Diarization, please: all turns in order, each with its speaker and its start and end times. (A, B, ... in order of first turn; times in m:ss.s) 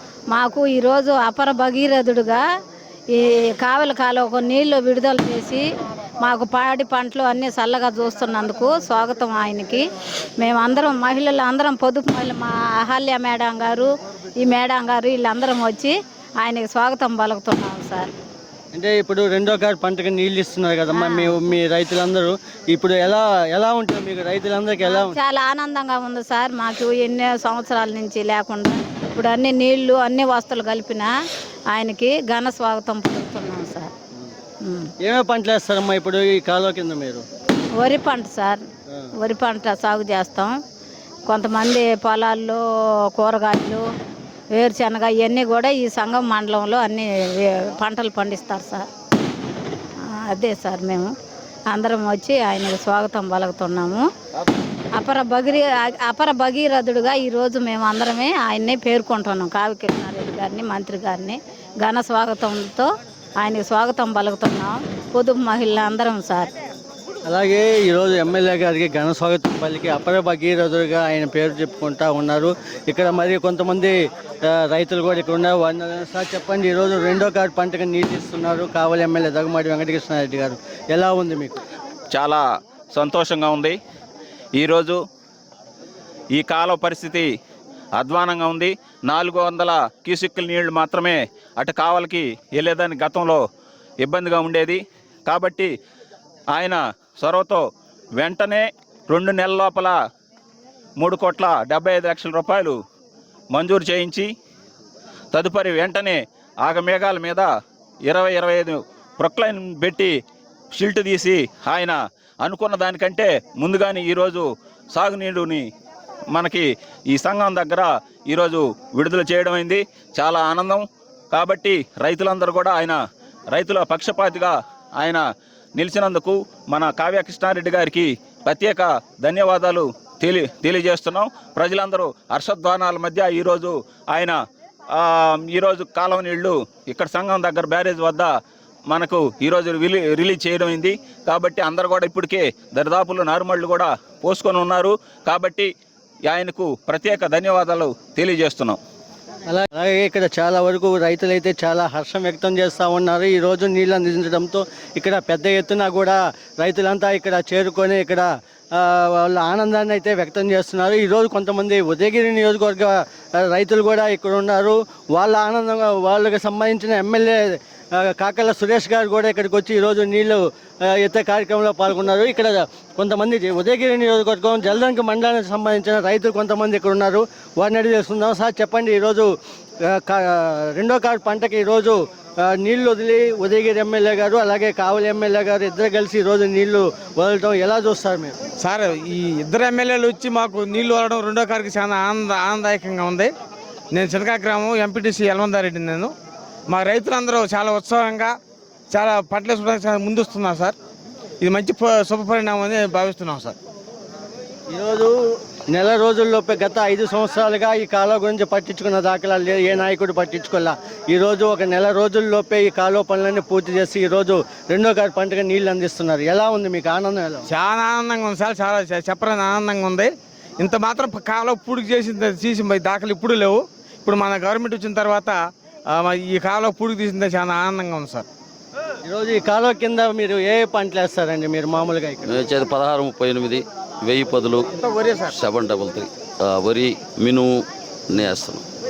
0:00.3-0:02.4 A
0:03.1-0:05.6 A
0:06.2-0:09.8 A
0:10.4-0:18.1 A
0:18.7-0:25.2 B
0:20.9-0:21.4 A
0:24.8-0:31.1 A
0:31.7-0:33.9 A
0:34.6-0:34.9 A
0:35.0-0:37.2 B
0:37.8-0:38.6 A
0:39.2-0:40.5 A
0:41.3-0:42.6 A
0:43.2-0:43.8 A
0:44.6-0:48.8 A
0:50.2-0:51.1 A
0:51.7-0:54.0 A
0:55.0-1:02.9 A
1:03.4-1:06.5 A
1:07.3-1:14.0 B
1:14.5-1:21.6 B
1:22.1-1:22.4 C
1:22.9-1:23.8 C
1:24.6-1:25.0 C
1:26.4-1:27.3 C
1:28.0-1:33.4 C
1:34.0-1:35.7 C
1:36.5-1:37.6 C
1:38.2-1:39.9 C
1:41.0-1:42.7 C
1:43.5-1:44.3 C
1:45.3-1:47.5 C
1:48.1-1:50.1 C
1:50.8-1:55.6 C
1:56.3-2:03.0 C
2:03.5-2:05.2 C
2:05.8-2:14.4 C
2:15.0-2:18.3 C
2:18.9-2:25.7 C
2:26.3-2:28.8 C
2:29.4-2:59.3 B
2:59.8-3:08.3 B
3:08.6-3:13.3 D
3:13.9-3:16.1 D
3:16.7-3:18.3 D
3:18.9-3:20.7 D
3:21.4-3:23.5 D
3:24.7-3:37.4 B
3:37.5-3:45.4 D
3:46.0-3:48.2 D
3:49.0-3:52.3 B
3:52.2-3:54.7 E
3:55.3-3:58.6 E